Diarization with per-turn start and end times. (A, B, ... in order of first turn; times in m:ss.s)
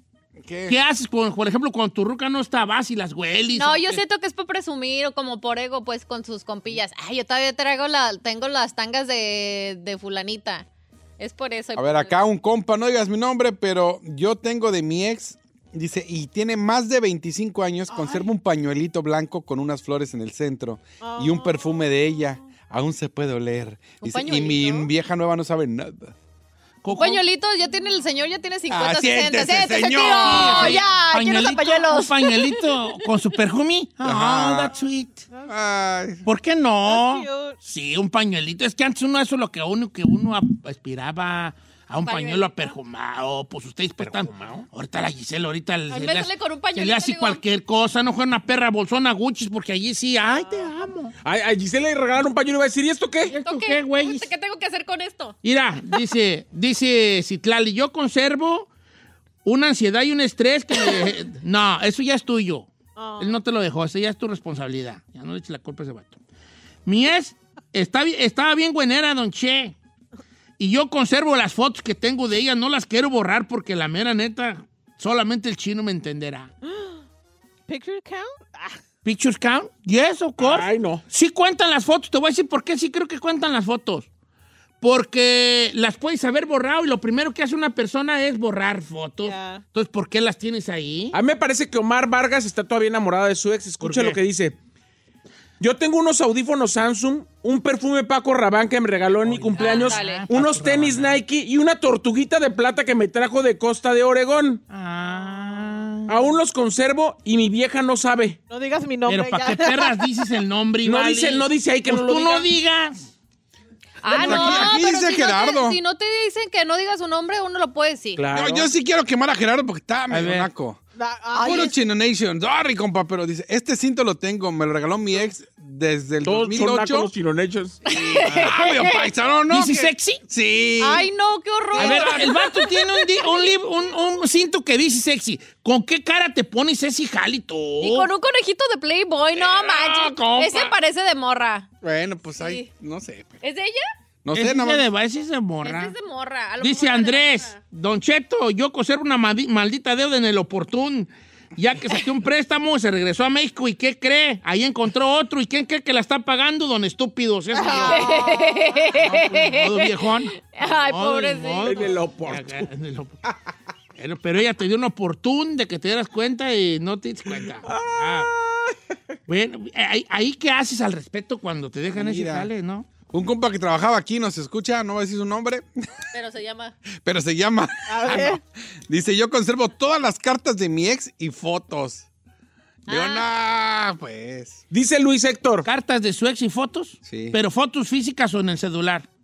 0:00.4-0:00.8 A
0:00.7-0:04.0 B
0:03.5-0:10.6 C
0:11.2-0:12.2 C
0:11.8-0:26.1 A
0:17.9-0:18.3 D
0:21.0-0:21.7 D
0:24.0-0:24.9 C
0:26.8-0:27.2 B
0:26.9-0:32.9 C
0:28.7-0:30.8 A
0:30.1-0:35.2 B
0:34.0-0:34.8 A
0:35.5-0:36.2 A
0:36.2-0:51.1 B
0:36.8-0:37.6 D
0:42.0-0:42.7 C
0:44.0-0:44.7 E
0:45.9-0:47.4 C
0:50.4-0:50.6 D
0:51.2-0:53.3 E
0:53.3-0:54.3 B
0:53.4-0:55.4 C
0:55.4-0:58.7 B
0:59.4-1:06.2 B
1:03.0-1:03.4 D
1:06.8-1:09.7 B
1:10.6-1:16.5 B
1:16.6-1:17.0 D
1:17.7-1:18.8 D
1:19.0-1:24.1 B
1:20.4-1:21.0 E
1:24.8-1:31.2 B
1:29.2-1:29.6 D
1:31.1-1:34.6 E
1:33.8-1:34.2 B
1:35.6-1:44.6 E
1:39.2-1:41.2 B
1:39.6-1:40.2 C
1:44.7-1:46.2 B
1:46.1-1:48.4 E
1:48.5-1:50.3 D
1:49.1-1:53.1 B
1:50.8-1:52.5 E
1:54.0-1:58.2 C
1:54.0-1:55.8 A
1:54.2-1:54.7 B
1:58.2-1:58.7 E
1:58.3-2:00.8 A
2:00.1-2:00.5 B
2:01.0-2:01.7 D
2:01.3-2:01.7 C
2:01.4-2:07.1 A
2:06.2-2:07.8 E
2:07.8-2:11.1 A
2:07.8-2:09.1 C
2:09.5-2:10.2 B
2:10.8-2:13.4 C
2:11.7-2:12.5 A
2:11.7-2:18.1 B
2:17.8-2:21.7 C
2:19.3-2:20.8 A
2:21.8-2:23.4 A
2:22.4-2:22.7 C
2:23.4-2:23.8 C
2:24.2-2:24.9 A
2:24.3-2:25.9 B
2:25.6-2:27.6 C
2:26.6-2:38.2 B
2:37.5-2:38.9 D
2:37.6-2:41.9 C
2:39.0-2:43.2 B
2:41.6-2:42.6 E
2:44.0-2:48.3 B
2:47.6-2:48.8 E
2:49.3-2:52.9 B
2:51.9-2:52.5 A
2:53.1-2:55.6 A
2:56.1-2:56.7 C
2:57.0-3:02.1 A
2:57.9-2:58.4 D
3:02.9-3:03.2 C
3:02.9-3:04.6 A
3:04.7-3:05.6 E
3:05.6-3:09.1 B
3:07.0-3:07.4 A